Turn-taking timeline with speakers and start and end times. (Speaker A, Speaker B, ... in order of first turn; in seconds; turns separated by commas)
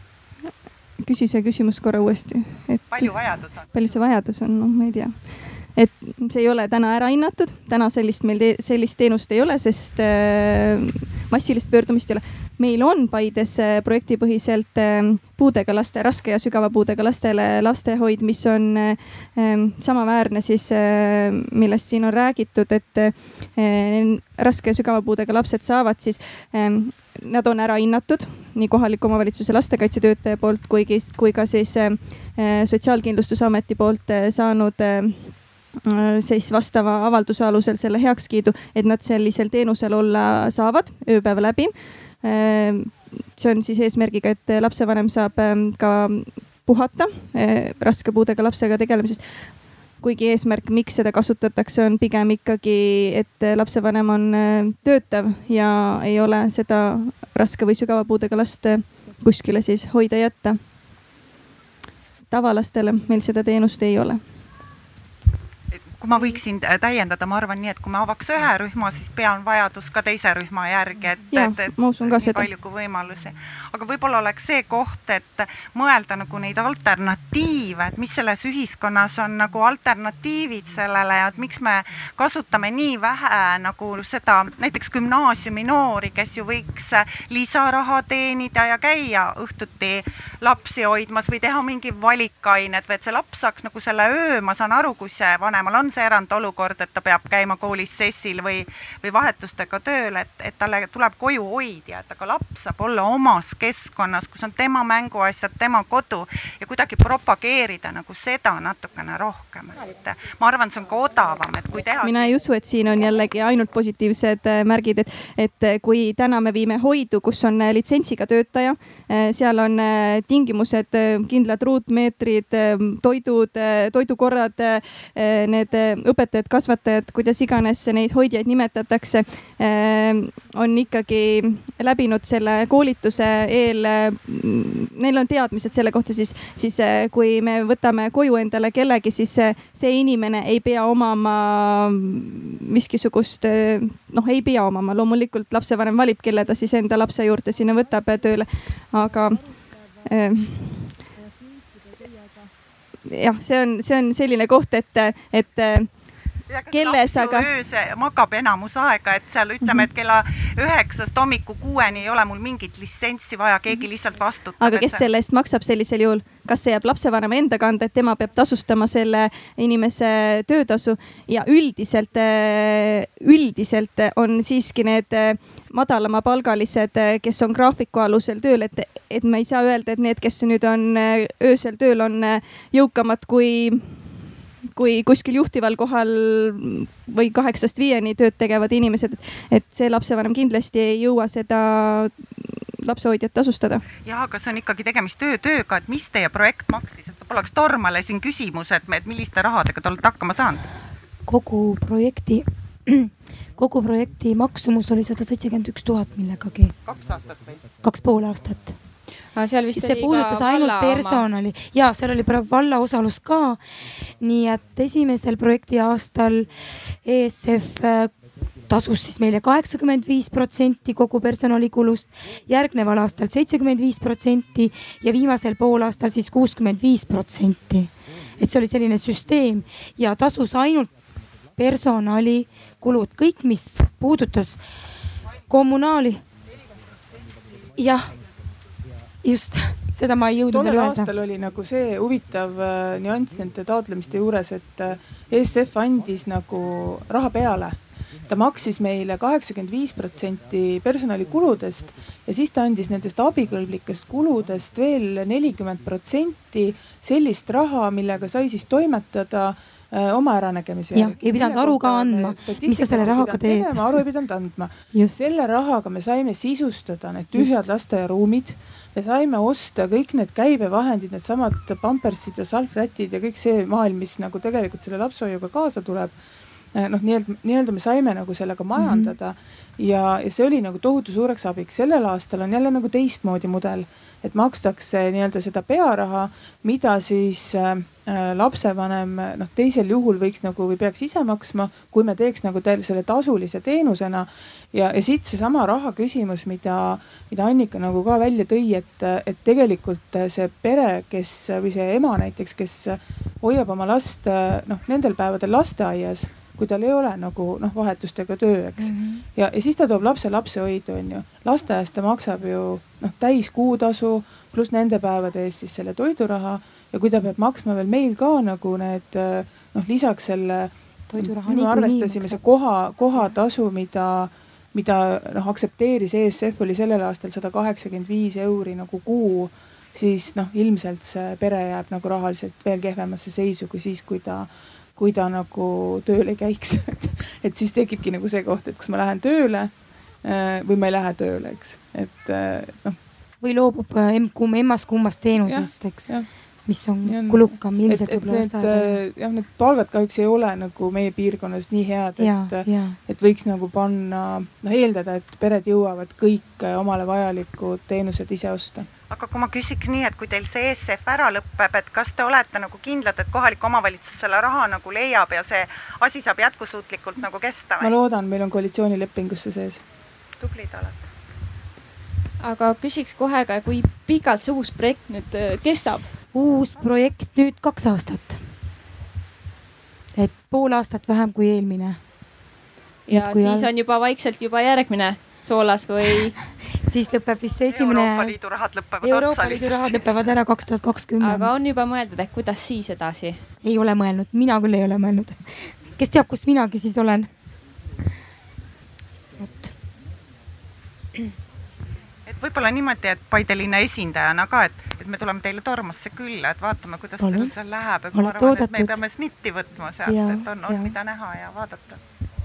Speaker A: 1.0-60.7, Speaker B: 2.9-3.8, Speaker A: 62.3-64.2, Speaker B: 65.9-112.4, Speaker A: 71.3-72.5, Speaker A: 112.0-151.0, Speaker A: 153.1-156.1, Speaker B: 156.5-165.1, Speaker A: 156.7-157.5, Speaker A: 164.6-184.1, Speaker A: 184.7-193.8, Speaker B: 194.1-200.7, Speaker C: 201.3-206.8, Speaker B: 206.8-207.6, Speaker C: 207.8-208.8, Speaker D: 209.3-211.3, Speaker C: 209.8-234.6, Speaker C: 235.5-236.3, Speaker C: 237.8-238.2, Speaker C: 239.2-241.1, Speaker E: 240.5-276.1, Speaker C: 260.9-264.1, Speaker C: 264.9-265.2, Speaker C: 267.3-267.7, Speaker E: 276.7-343.0, Speaker C: 278.8-279.2, Speaker C: 308.8-309.2, Speaker C: 321.1-322.4, Speaker C: 343.4-349.0, Speaker E: 345.4-358.9, Speaker C: 352.2-353.0, Speaker B: 359.1-367.9, Speaker E: 367.8-369.8, Speaker B: 370.4-371.0, Speaker D: 372.4-376.1, Speaker C: 376.3-378.4, Speaker C: 380.2-382.0, Speaker C: 383.1-383.7, Speaker D: 383.1-386.4, Speaker C: 386.8-388.4, Speaker B: 387.7-390.2, Speaker C: 389.0-391.6, Speaker D: 391.2-393.4, Speaker C: 393.6-397.3, Speaker C: 399.4-399.7, Speaker B: 402.3-412.0, Speaker C: 407.2-407.5, Speaker C: 408.1-409.0, Speaker C: 410.1-410.9